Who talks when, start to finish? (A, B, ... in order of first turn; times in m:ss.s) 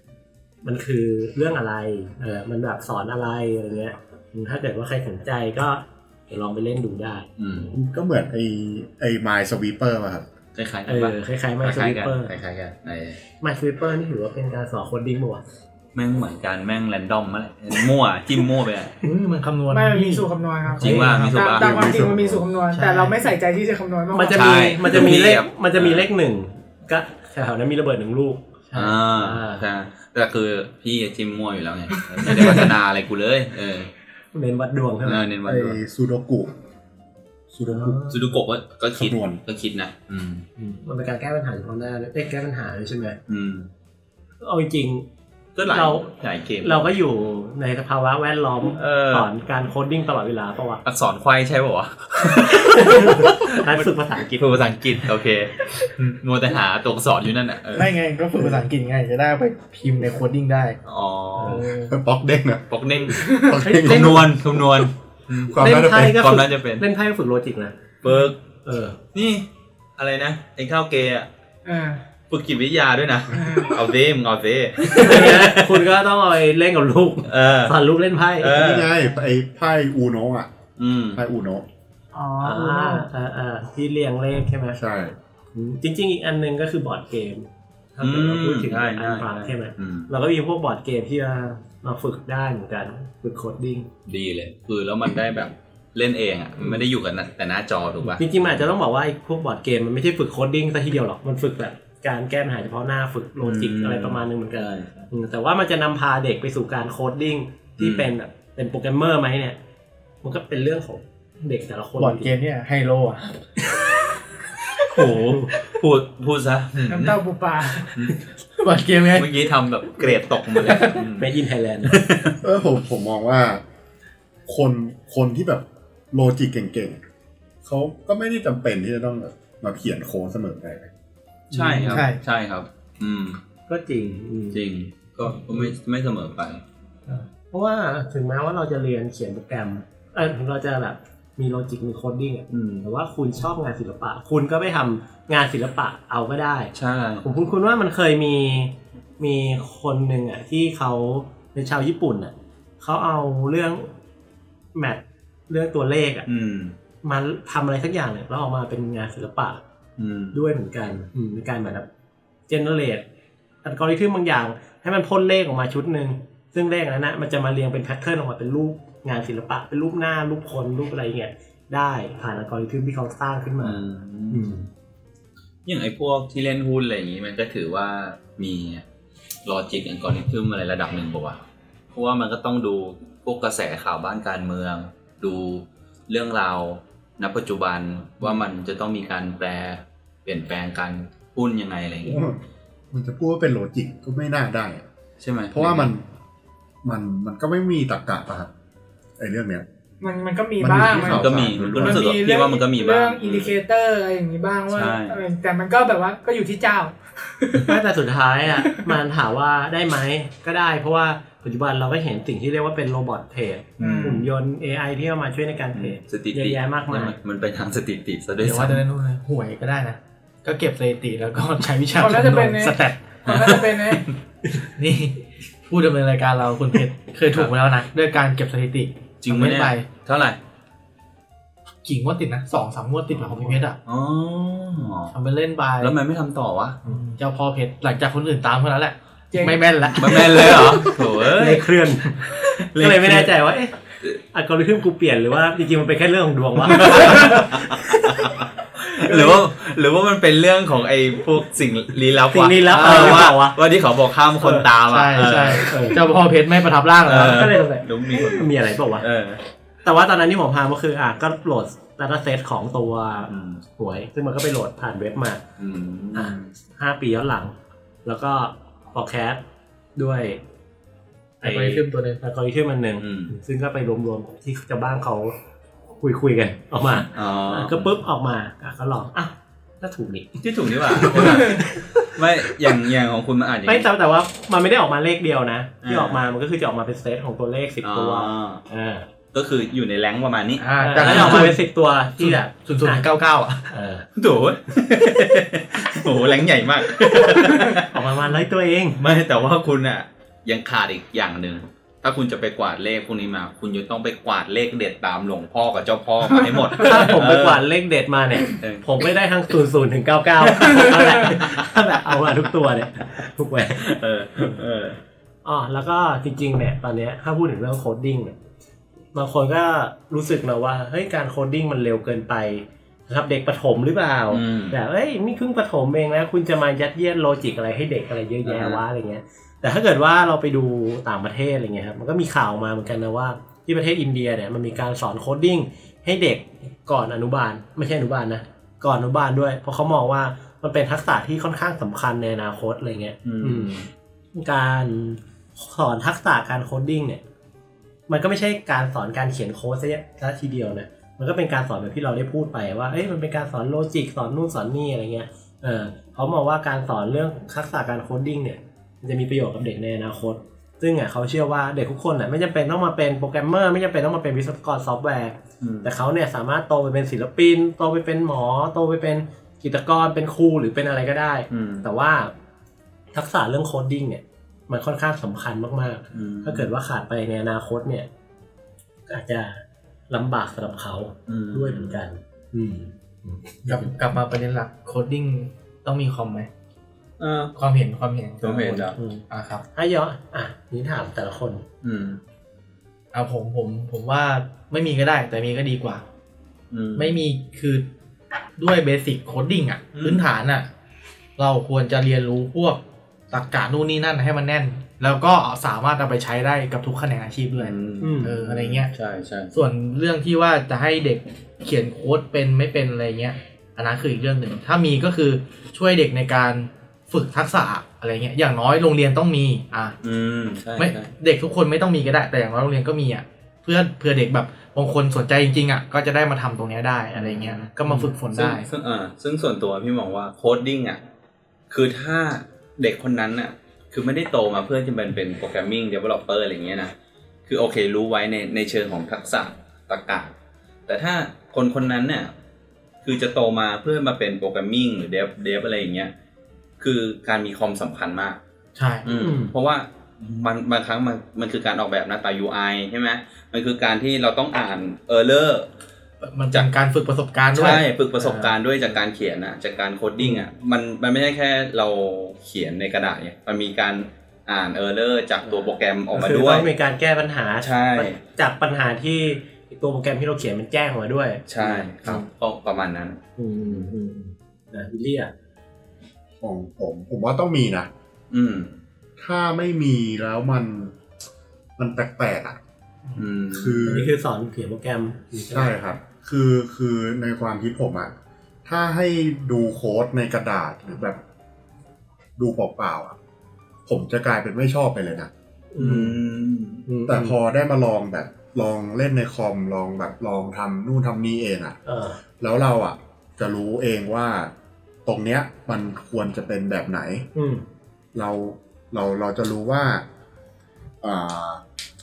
0:00.6-0:07.3 A
0:07.4-0:07.7 B
0:07.7-0:10.3 C
0:10.6-0:13.2 B
0:10.9-0:12.4 A
0:13.4-0:15.4 A
0:16.0-0:19.0 B
0:19.0-0:21.9 D
0:19.7-0:24.8 E
0:20.8-0:21.8 B
0:21.6-0:22.5 C
0:22.7-0:23.3 D
0:24.1-0:29.6 A
0:24.3-0:26.1 B
0:28.8-0:33.9 B
0:34.3-0:35.3 A
0:35.0-0:35.8 B
0:35.4-0:36.6 C
0:37.5-0:38.1 C
0:37.7-0:38.2 A
0:38.1-0:40.5 B
0:39.0-0:39.4 C
0:40.6-0:43.2 A
0:43.3-0:43.7 B
0:44.4-0:45.1 A
0:45.6-0:46.9 B
0:45.6-0:46.1 A
0:46.6-0:50.8 A
0:48.8-0:49.3 B
0:50.8-0:57.9 B
0:52.4-0:54.4 A
0:57.7-1:00.8 D
1:00.8-1:01.7 B
1:01.4-1:01.6 A
1:01.4-1:01.9 D
1:01.8-1:04.5 C
1:02.7-1:06.8 B
1:03.2-1:03.6 E
1:05.5-1:06.3 C
1:05.6-1:07.8 A
1:08.0-1:08.4 B
1:08.6-1:09.0 A
1:09.1-1:11.3 B
1:11.6-1:12.0 E
1:12.3-1:15.8 B
1:13.3-1:13.8 E
1:14.9-1:18.8 A
1:17.3-1:17.8 B
1:18.4-1:18.9 B
1:18.5-1:20.5 C
1:20.8-1:21.2 B
1:21.2-1:21.7 C
1:22.1-1:23.1 E
1:22.4-1:24.8 A
1:24.8-1:25.2 C
1:25.5-1:33.9 A
1:28.0-1:30.1 B
1:34.1-1:38.7 B
1:38.0-1:49.6 A
1:43.4-1:45.1 B
1:47.8-1:48.1 B
1:50.2-1:52.3 A
1:52.0-1:53.5 D
1:54.8-1:57.2 B
1:55.2-1:55.6 A
1:56.9-1:58.1 E
1:58.6-1:59.3 D
1:59.1-2:01.3 B
2:00.6-2:01.0 D
2:01.2-2:02.1 A
2:01.9-2:02.4 B
2:02.4-2:03.6 C
2:04.5-2:07.0 C
2:07.6-2:10.9 C
2:11.5-2:12.0 A
2:11.5-2:13.4 B
2:11.8-2:12.2 D
2:13.7-2:14.6 A
2:14.5-2:16.6 B
2:17.1-2:33.9 A
2:22.5-2:22.9 B
2:26.8-2:27.2 B
2:34.7-2:36.3 A
2:36.3-2:36.8 B
2:37.0-2:39.6 A
2:40.0-2:40.4 B
2:40.3-2:41.9 A
2:42.5-2:43.0 A
2:43.6-2:54.7 A
2:53.6-2:54.5 B
2:55.6-2:58.8 B
2:59.4-3:01.4 B
3:01.9-3:12.3 B
3:12.0-3:12.4 C
3:12.9-3:14.9 C
3:15.2-3:15.9 B
3:15.5-3:16.0 C
3:16.8-3:18.5 C
3:19.2-3:19.7 C
3:20.0-3:27.8 E
3:20.6-3:22.1 C
3:21.0-3:23.6 B
3:24.7-3:25.2 B
3:27.6-3:37.2 A
3:28.6-3:28.9 E
3:33.8-3:34.3 B
3:33.8-3:34.2 E
3:35.7-3:38.8 B
3:38.4-3:43.5 D
3:42.0-3:44.1 E
3:43.3-3:44.0 B
3:44.6-3:49.9 D
3:49.2-3:50.4 B
3:51.8-3:53.8 D
3:53.3-3:53.6 A
3:53.8-3:55.2 B
3:55.1-3:56.0 D
3:55.8-3:56.8 B
3:56.9-4:01.0 D
3:59.3-3:59.6 E
3:59.9-4:01.7 B
4:01.2-4:03.8 A
4:02.4-4:03.3 B
4:04.3-4:07.6 A
4:06.7-4:15.8 B
4:12.3-4:13.6 A
4:12.7-4:13.3 D
4:14.4-4:14.7 A
4:14.9-4:17.6 D
4:15.6-4:16.0 A
4:17.1-4:19.4 B
4:17.1-4:19.1 A
4:19.8-4:25.4 A
4:23.3-4:23.6 B
4:25.6-4:26.5 B
4:26.1-4:29.4 A
4:30.0-4:30.4 A
4:31.4-4:32.2 D
4:31.4-4:35.4 A
4:33.0-4:33.3 B
4:36.0-4:42.7 A
4:37.1-4:37.9 B
4:40.4-4:43.9 B
4:43.7-4:49.1 A
4:45.8-4:46.2 B
4:47.8-4:48.6 B
4:49.3-4:51.6 B
4:50.6-4:51.7 D
4:50.8-4:53.1 A
4:52.2-4:53.7 D
4:53.7-4:54.1 A
4:54.2-4:57.9 B
4:57.0-4:59.0 A
4:59.0-5:07.7 B
5:06.7-5:14.6 A
5:08.5-5:08.9 B
5:10.7-5:11.8 B
5:13.8-5:15.0 B
5:15.4-5:18.4 A
5:19.1-5:43.8 A
5:24.3-5:24.8 B
5:28.4-5:28.8 B
5:43.2-5:43.9 B
5:44.3-5:47.2 A
5:48.1-6:12.3 A
6:05.6-6:05.9 B
6:11.5-6:11.9 B
6:13.1-6:18.1 A
6:16.1-6:16.7 B
6:19.1-6:24.0 A
6:21.3-6:22.0 B
6:23.7-6:26.5 D
6:27.2-6:27.6 B
6:27.6-6:29.6 D
6:28.4-6:29.0 B
6:29.0-6:31.6 A
6:31.8-6:32.2 B
6:33.1-6:36.0 D
6:36.7-6:37.2 B
6:37.0-6:37.9 D
6:38.6-6:40.7 D
6:39.9-6:40.3 B
6:41.4-6:48.9 D
6:47.6-6:49.6 B
6:48.0-6:48.4 A
6:49.5-7:00.0 D
7:00.0-7:01.1 B
7:00.8-7:08.7 D
7:07.2-7:07.6 B
7:07.8-7:08.1 A
7:08.3-7:11.0 B
7:11.7-7:16.9 B
7:17.5-7:20.3 B
7:20.9-7:22.3 B
7:23.0-7:26.1 B
7:26.8-7:28.4 B
7:28.8-7:29.1 D
7:29.0-7:35.7 B
7:29.1-7:29.5 A
7:36.2-7:38.5 D
7:37.5-7:46.7 B
7:40.2-7:40.5 A
7:45.4-7:52.3 A
7:47.6-7:48.2 B
7:51.5-7:53.2 B
7:53.4-7:55.3 A
7:56.4-7:57.9 C
7:58.3-7:58.7 B
7:59.2-8:01.0 C
8:01.8-8:02.6 C
8:03.2-8:04.1 B
8:03.5-8:04.1 C
8:03.9-8:05.7 A
8:05.5-8:08.1 C
8:08.7-8:11.2 C
8:12.4-8:13.2 C
8:13.9-8:15.3 C
8:15.7-8:16.2 A
8:15.8-8:16.8 B
8:16.9-8:17.4 A
8:17.1-8:21.8 C
8:21.8-8:22.2 A
8:22.4-8:24.5 C
8:25.1-8:27.3 C
8:27.4-8:27.6 A
8:28.1-8:30.0 C
8:31.0-8:31.6 C